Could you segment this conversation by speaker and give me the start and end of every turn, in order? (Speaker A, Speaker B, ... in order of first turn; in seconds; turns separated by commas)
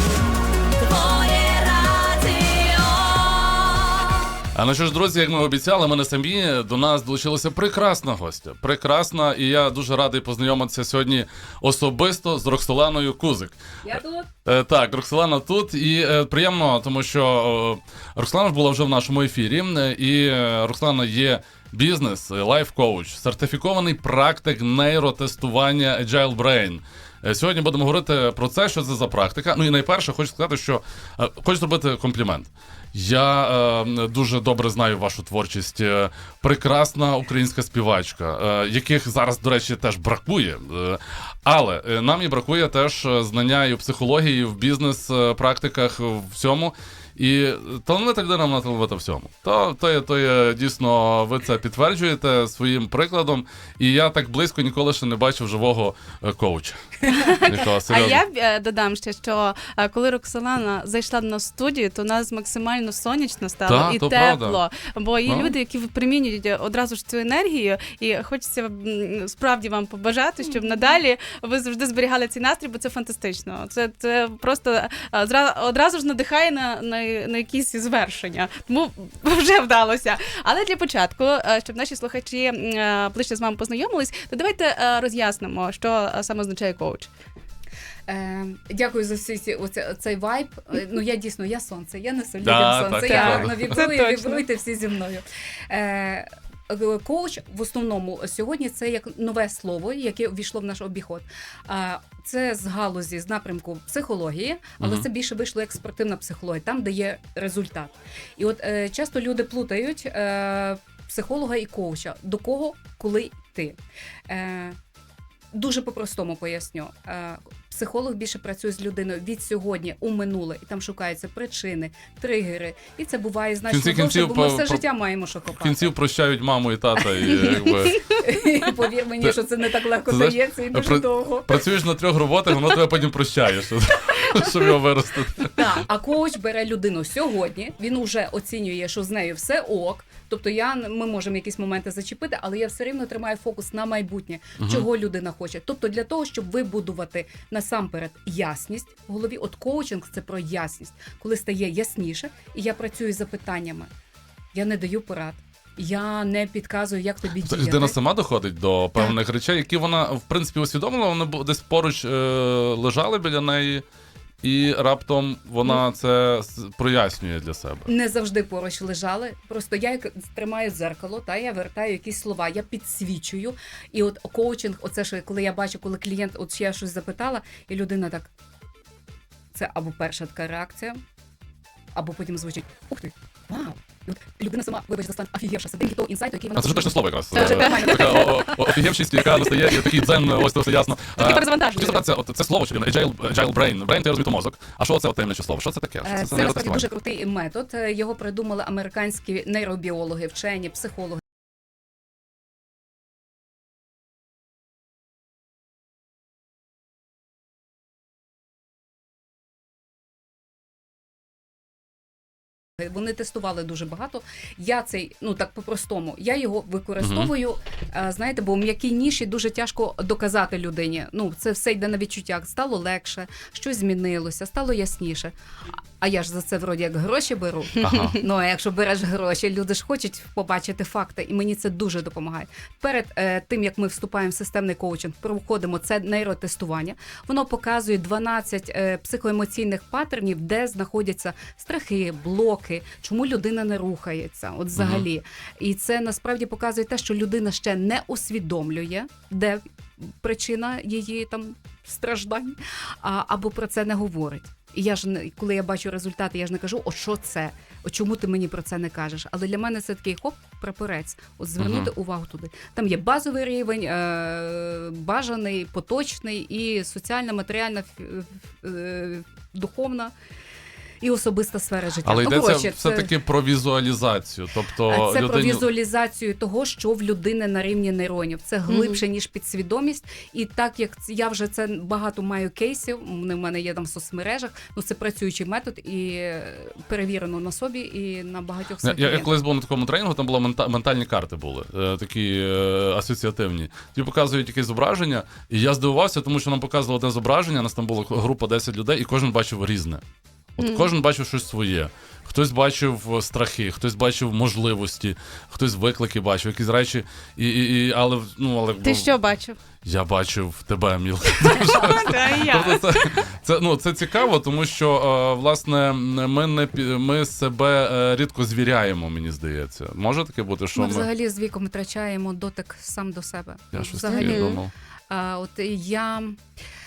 Speaker A: 0.8-3.8, Speaker B: 4.5-58.2, Speaker C: 13.8-14.3, Speaker A: 57.0-87.1, Speaker B: 63.6-64.6, Speaker B: 65.2-65.5, Speaker C: 88.1-114.8, Speaker B: 92.4-93.8, Speaker A: 93.1-94.4, Speaker B: 104.8-105.1, Speaker C: 115.5-125.9, Speaker B: 123.7-124.8, Speaker B: 125.6-128.1, Speaker A: 127.3-128.0, Speaker C: 127.7-131.7, Speaker B: 130.1-135.8, Speaker C: 135.5-153.9, Speaker B: 144.6-144.9, Speaker C: 154.5-158.0, Speaker B: 157.4-163.8, Speaker B: 164.4-167.9, Speaker C: 167.9-178.3, Speaker C: 179.5-181.0, Speaker C: 181.9-188.6, Speaker B: 186.6-196.8, Speaker A: 187.3-188.0, Speaker C: 191.2-192.1, Speaker C: 196.0-201.2, Speaker C: 212.8-225.3, Speaker B: 217.0-217.3, Speaker C: 226.0-270.1, Speaker B: 227.8-228.2, Speaker B: 244.8-245.1, Speaker B: 261.6-261.9, Speaker C: 271.0-273.1, Speaker B: 272.0-275.6, Speaker C: 274.9-289.3, Speaker A: 278.7-279.0, Speaker B: 288.8-300.0, Speaker B: 300.6-309.1, Speaker A: 300.6-300.9, Speaker A: 308.8-309.6, Speaker B: 309.8-321.1, Speaker A: 311.6-313.1, Speaker C: 320.7-326.4, Speaker B: 323.7-324.7, Speaker A: 324.1-324.6